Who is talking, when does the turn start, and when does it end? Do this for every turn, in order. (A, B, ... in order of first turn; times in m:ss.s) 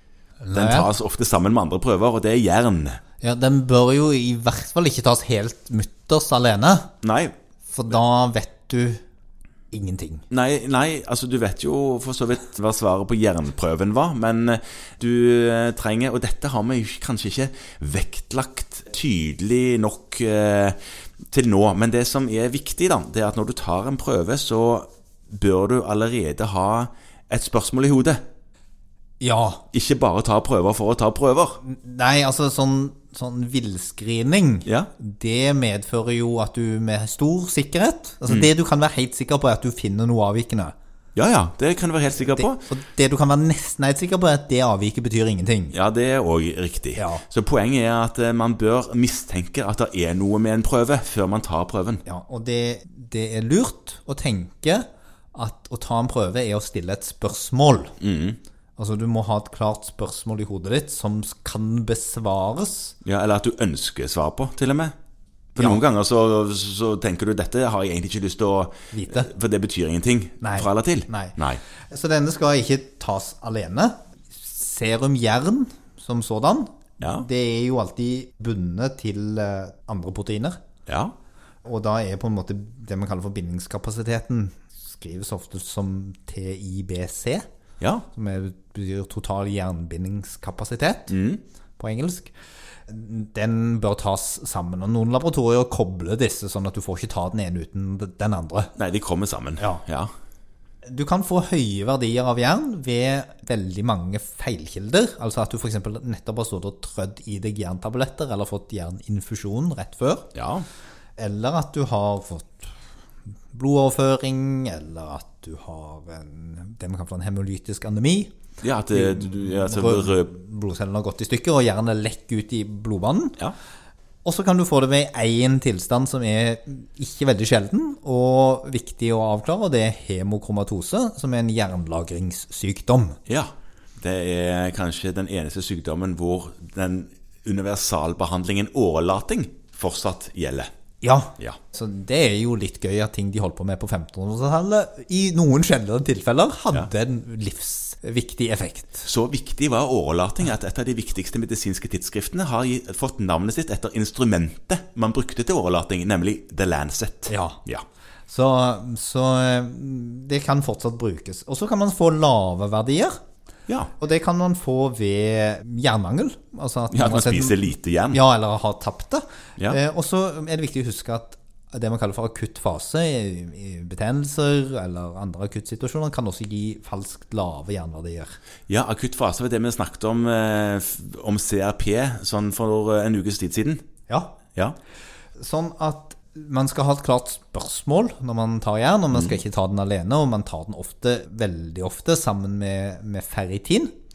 0:00.4-0:00.9 A
0:00.5-0:03.0 B
0:03.2-0:06.9 A
0:07.0-0:07.3 B
0:07.7-0:09.0 A
0:09.7-0:10.2 A
0:10.3-0:20.8 B
0:21.3-0:28.2 B
0:29.2-0:29.6 A
0:29.7-0:31.6 B
0:31.6-0:40.7 A
0:41.2-0:42.6 B
0:42.4-0:45.7 A
0:45.7-0:52.0 B
0:47.0-0:47.2 A
0:52.0-0:57.9 A
0:58.0-0:58.4 B
0:58.8-1:03.0 A
1:03.0-1:04.9 B
1:05.5-1:11.6 B
1:08.9-1:09.3 A
1:10.4-1:20.6 A
1:17.0-1:17.2 B
1:20.9-1:21.1 B
1:21.6-1:27.4 A
1:27.8-1:28.0 B
1:28.1-1:31.1 A
1:31.1-1:31.4 B
1:31.8-1:32.3 A
1:32.9-1:38.7 A
1:38.8-1:40.1 B
1:40.8-1:50.3 A
1:50.3-1:50.6 B
1:51.2-1:52.7 A
1:53.5-1:58.3 A
1:58.6-2:00.3 B
1:58.9-2:03.4 A
2:04.2-2:13.2 A
2:13.3-2:20.7 B
2:21.0-2:29.1 A
2:29.0-2:37.8 B
2:37.3-2:37.6 A
2:38.3-2:43.2 A
2:44.0-2:58.4 A
2:46.9-2:48.2 B
2:58.7-3:03.8 B
3:04.1-3:04.4 A
3:05.4-3:13.9 A